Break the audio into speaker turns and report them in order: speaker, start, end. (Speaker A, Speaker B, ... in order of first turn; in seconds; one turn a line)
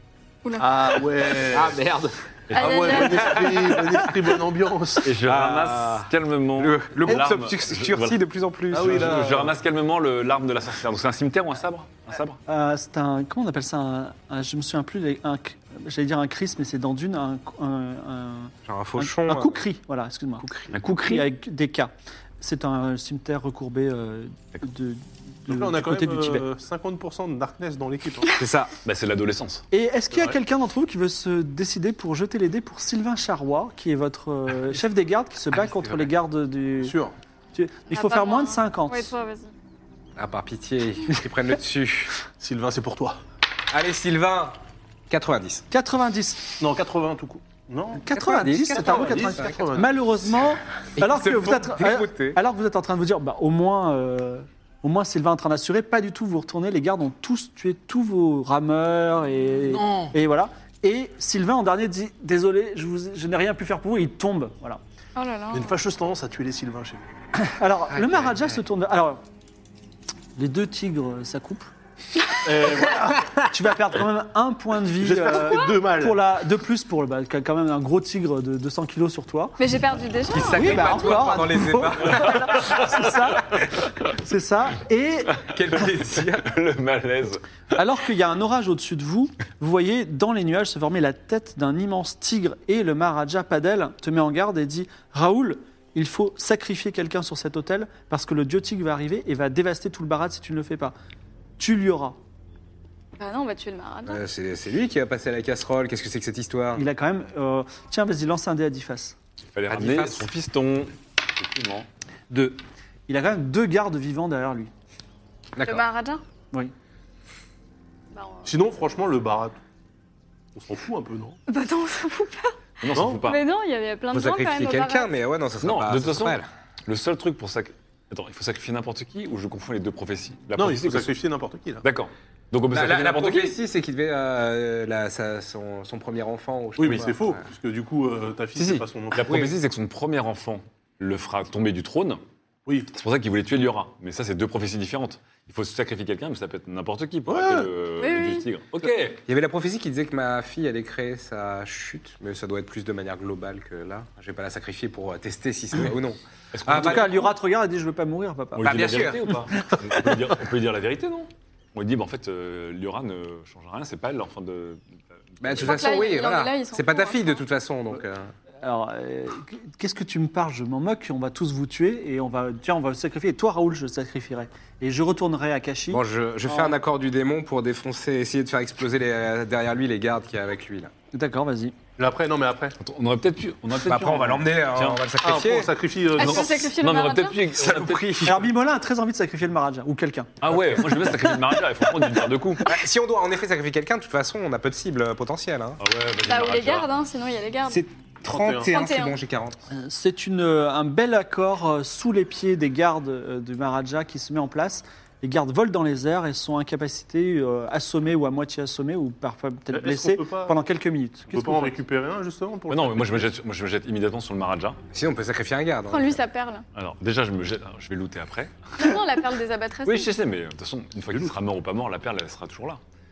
Speaker A: 0.4-1.2
Speaker B: 0.6-1.8
Speaker C: 1.4-2.1
Speaker D: 2.5-3.0
Speaker A: 2.5-3.9
Speaker B: 2.5-5.1
Speaker C: 3.3-3.7
Speaker D: 5.0-8.2
Speaker C: 5.2-9.3
Speaker B: 8.7-9.5
Speaker D: 8.7-12.4
Speaker E: 12.5-26.4
Speaker C: 18.6-19.6
Speaker C: 20.4-20.8
Speaker D: 20.7-21.3
Speaker B: 25.5-28.3
Speaker C: 28.4-28.7
Speaker D: 28.8-29.6
Speaker E: 29.7-37.0
Speaker B: 36.8-37.1
Speaker E: 37.5-39.1
Speaker A: 37.9-39.5
Speaker C: 40.1-42.1
Speaker B: 42.4-43.2
Speaker C: 43.7-44.6
Speaker C: 45.1-45.6
Speaker E: 45.7-46.6
Speaker B: 46.6-50.1
Speaker E: 48.0-64.8
Speaker C: 48.1-49.7
Speaker C: 51.0-52.4
Speaker A: 65.2-65.8
Speaker B: 65.5-67.0
Speaker E: 67.3-69.2
Speaker C: 67.9-68.5
Speaker E: 70.3-71.7
Speaker B: 72.4-73.3
Speaker E: 73.5-79.6
Speaker B: 75.0-76.2
Speaker A: 79.6-81.5
Speaker C: 80.3-82.8
Speaker E: 80.5-85.4
Speaker A: 82.2-82.6
Speaker C: 85.4-86.5
Speaker D: 85.6-87.4
Speaker E: 87.7-100.9
Speaker E: 101.6-102.2
Speaker A: 103.2-104.2
Speaker C: 104.0-106.8
Speaker E: 106.7-109.2
Speaker D: 109.5-111.9
Speaker C: 109.7-110.3
Speaker E: 112.3-114.7
Speaker C: 115.5-115.8
Speaker A: 115.6-116.2
Speaker A: 118.1-118.5
Speaker B: 118.4-119.6
Speaker B: 120.5-121.4
Speaker A: 121.5-122.5
Speaker D: 122.8-123.4
Speaker B: 122.9-123.2
Speaker A: 123.2-125.1
Speaker C: 124.1-126.5
Speaker D: 125.6-131.1
Speaker B: 130.6-131.8
Speaker D: 131.8-133.6
Speaker C: 132.7-137.4
Speaker B: 136.8-139.3
Speaker D: 138.6-142.2
Speaker C: 139.3-139.5
Speaker B: 142.7-142.9
Speaker D: 142.9-149.2
Speaker B: 147.3-147.7
Speaker A: 148.0-148.4
Speaker C: 149.2-157.2
Speaker D: 156.5-157.3
Speaker E: 156.7-158.7
Speaker D: 158.6-165.9
Speaker C: 158.6-159.3
Speaker C: 165.4-168.3
Speaker A: 165.6-167.4
Speaker E: 168.6-176.8
Speaker C: 175.9-180.9
Speaker E: 181.1-181.7
Speaker B: 182.0-182.8
Speaker D: 182.8-185.0
Speaker C: 183.8-185.7
Speaker B: 185.2-186.7
Speaker A: 186.1-187.4
Speaker D: 186.2-188.4
Speaker C: 187.5-188.3
Speaker E: 188.2-190.3
Speaker D: 190.4-192.7
Speaker C: 192.6-195.8
Speaker D: 195.8-196.9
Speaker A: 196.3-197.8
Speaker C: 197.7-199.6
Speaker B: 198.2-198.7
Speaker A: 198.6-199.2
Speaker E: 199.7-211.8
Speaker B: 209.7-210.6
Speaker B: 211.3-213.3
Speaker D: 212.7-214.8
Speaker C: 214.9-216.2
Speaker A: 215.9-216.6
Speaker D: 216.7-218.9
Speaker A: 218.8-220.1
Speaker D: 219.8-222.8